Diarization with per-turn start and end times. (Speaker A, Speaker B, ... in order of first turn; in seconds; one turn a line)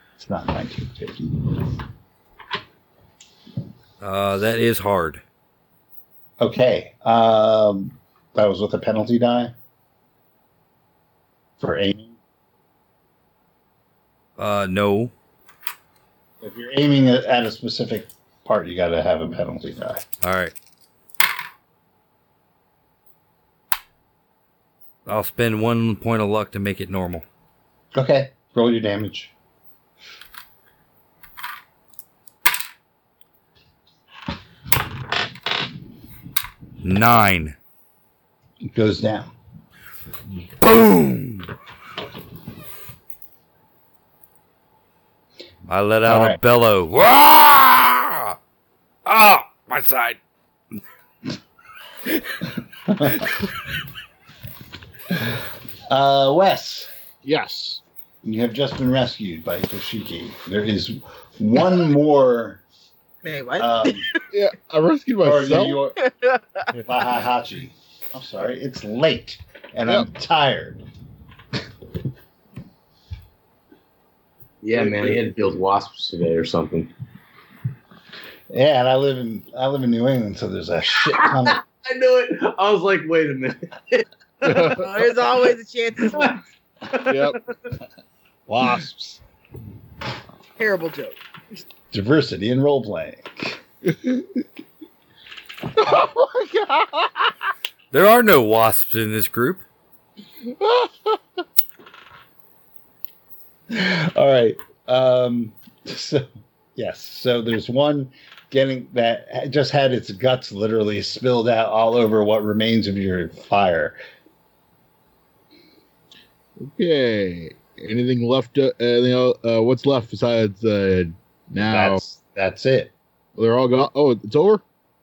Speaker A: 0.2-1.6
Speaker B: 4.0-5.2
Speaker A: 6.4-9.5
Speaker A: 11.6-12.2
Speaker B: 14.4-15.1
Speaker A: 16.4-20.0
Speaker B: 20.2-20.5
Speaker B: 25.1-27.2
Speaker A: 27.9-29.3
Speaker B: 36.8-37.5
Speaker A: 38.7-39.3
Speaker B: 40.6-41.5
Speaker B: 45.7-48.4
Speaker A: 46.0-46.4
Speaker B: 49.0-50.2
Speaker A: 52.8-53.3
Speaker A: 55.1-55.4
Speaker A: 55.9-56.9
Speaker C: 57.2-57.8
Speaker A: 58.2-62.6
Speaker D: 63.2-64.2
Speaker A: 63.6-64.1
Speaker C: 64.3-65.8
Speaker A: 65.2-66.0
Speaker D: 66.0-66.8
Speaker A: 66.7-70.8
Speaker E: 74.6-76.9
Speaker C: 74.8-75.2
Speaker A: 78.5-81.6
Speaker E: 81.1-84.9
Speaker C: 84.4-84.8
Speaker D: 84.7-86.4
Speaker E: 86.9-87.7
Speaker C: 87.0-87.4
Speaker A: 88.5-89.2
Speaker D: 90.6-91.2
Speaker A: 91.9-94.2
Speaker C: 95.8-97.3
Speaker B: 97.9-99.6
Speaker C: 100.6-101.2
Speaker A: 103.7-114.0
Speaker C: 116.6-122.0
Speaker A: 121.7-122.9
Speaker C: 123.3-124.6